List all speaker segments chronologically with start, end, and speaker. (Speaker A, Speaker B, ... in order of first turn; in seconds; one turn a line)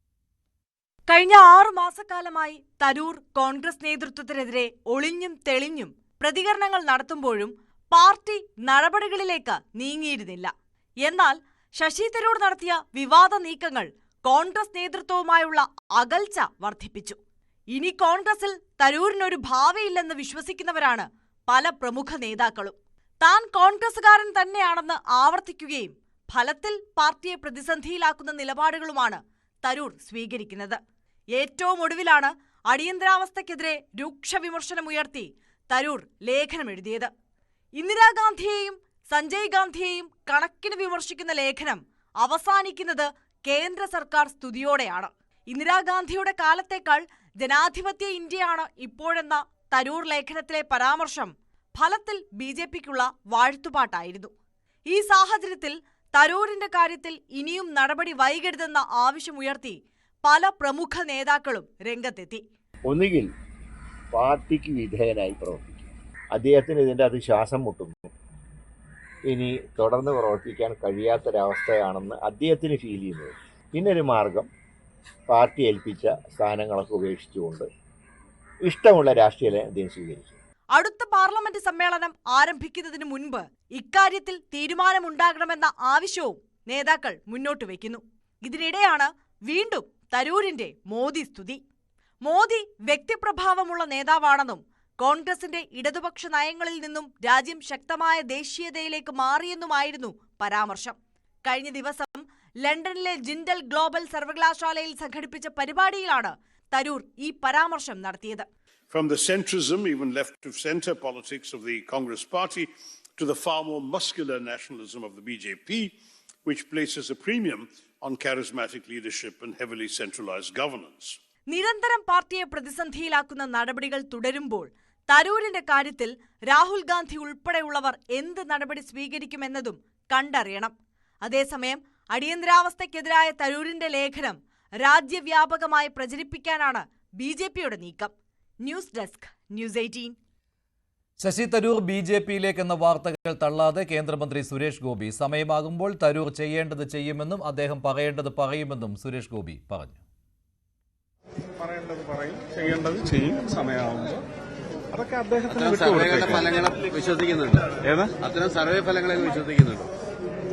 Speaker A: 1.1-10.5
Speaker A: 11.1-17.2
Speaker A: 17.7-30.8
Speaker A: 31.4-37.1
Speaker A: 37.8-54.3
Speaker A: 54.9-62.4
Speaker B: 62.9-63.3
Speaker B: 64.1-68.1
Speaker B: 69.3-74.5
Speaker B: 75.3-77.7
Speaker B: 78.7-80.3
Speaker A: 80.7-91.6
Speaker A: 92.2-108.5
Speaker C: 108.9-115.9
Speaker C: 116.5-121.2
Speaker A: 121.5-130.7
Speaker A: 131.2-138.1
Speaker A: 138.6-140.2
Speaker D: 141.2-150.0
Speaker E: 151.6-154.2
Speaker E: 154.9-156.6
Speaker F: 155.5-159.9
Speaker E: 157.8-158.2